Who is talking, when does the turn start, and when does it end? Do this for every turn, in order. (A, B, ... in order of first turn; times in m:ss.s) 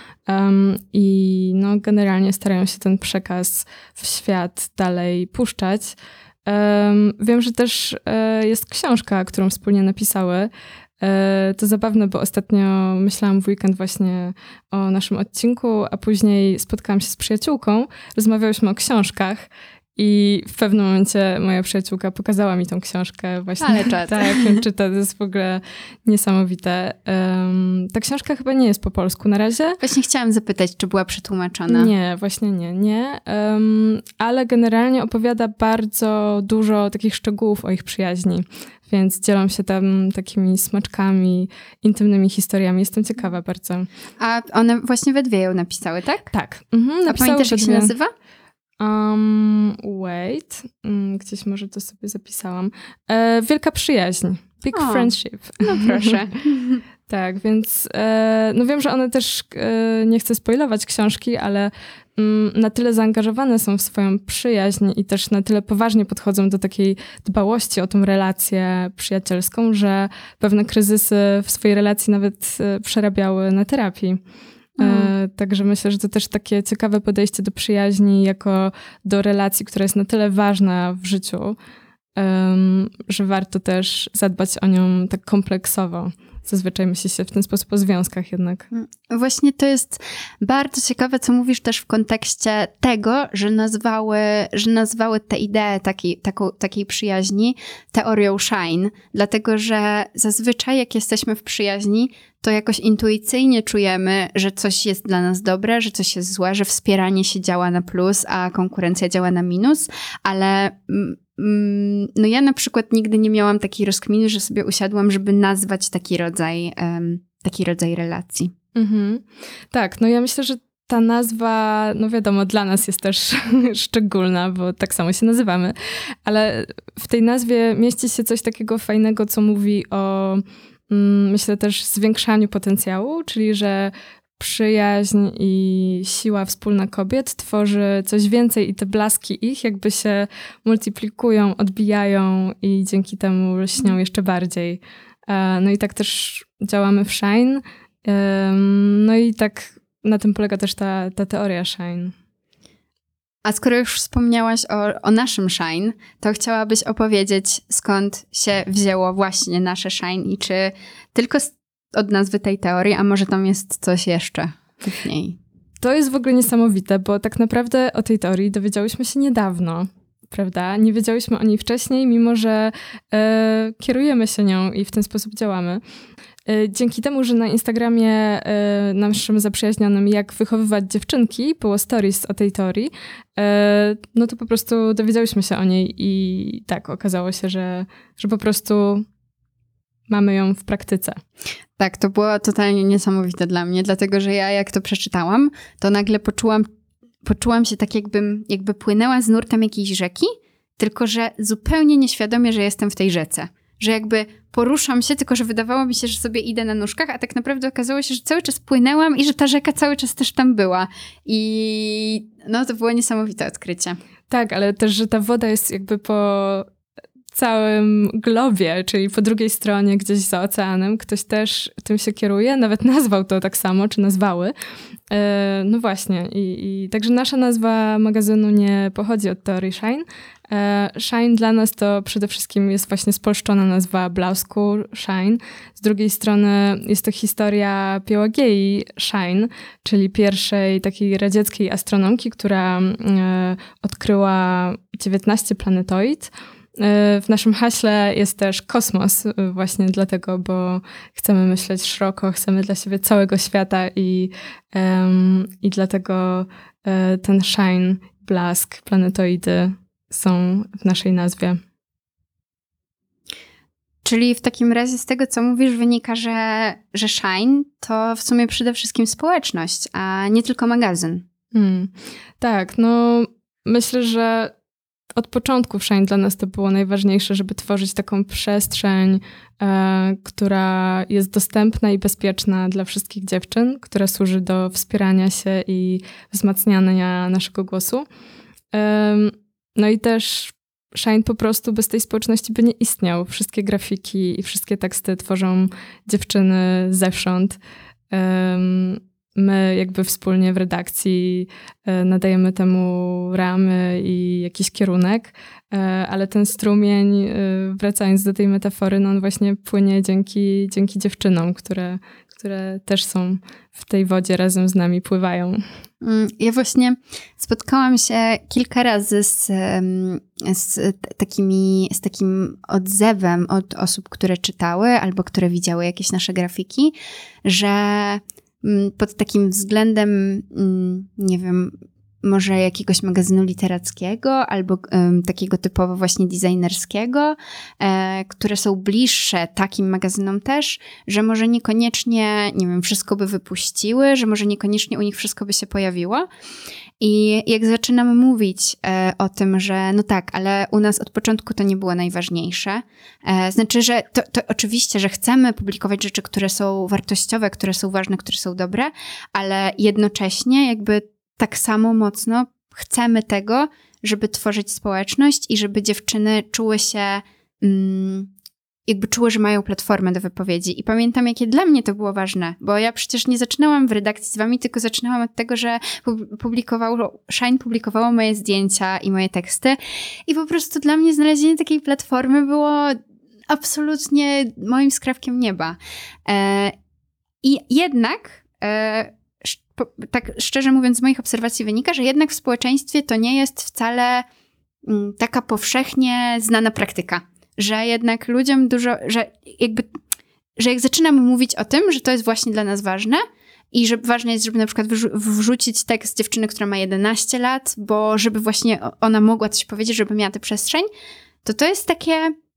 0:00.3-0:29.8 A
0:23.6-0:24.6 B
0:29.8-0:31.9 B
0:31.7-0:43.9 A
0:44.2-0:46.3 B
0:46.3-0:47.9 A
0:47.1-0:48.1 B
0:48.8-0:56.2 A
0:54.7-0:56.8 B
0:57.1-1:14.2 A
1:14.8-1:15.1 B
1:14.8-1:21.6 A
1:22.2-1:28.7 A
1:28.7-1:58.5 B
1:58.8-2:32.2 A
2:33.4-2:45.4 B
2:45.8-2:55.8 A
2:56.5-3:09.1 A
3:10.1-3:11.2 A
3:11.8-3:16.7 B
3:17.2-3:34.0 B
3:34.3-3:36.7 A
3:37.3-3:44.5 A
3:45.1-4:21.6 A
4:24.0-4:31.2 B
4:31.5-4:34.5 A
4:35.1-4:48.1 A
4:48.7-4:57.6 A
4:58.1-5:15.6 A
5:16.0-5:46.3 B
5:47.0-6:08.3 B
6:08.9-6:23.0 B
6:23.5-6:26.8 B
6:27.4-6:34.3 B
6:34.8-6:39.9 B
6:40.6-6:50.9 B
6:51.4-6:52.4 B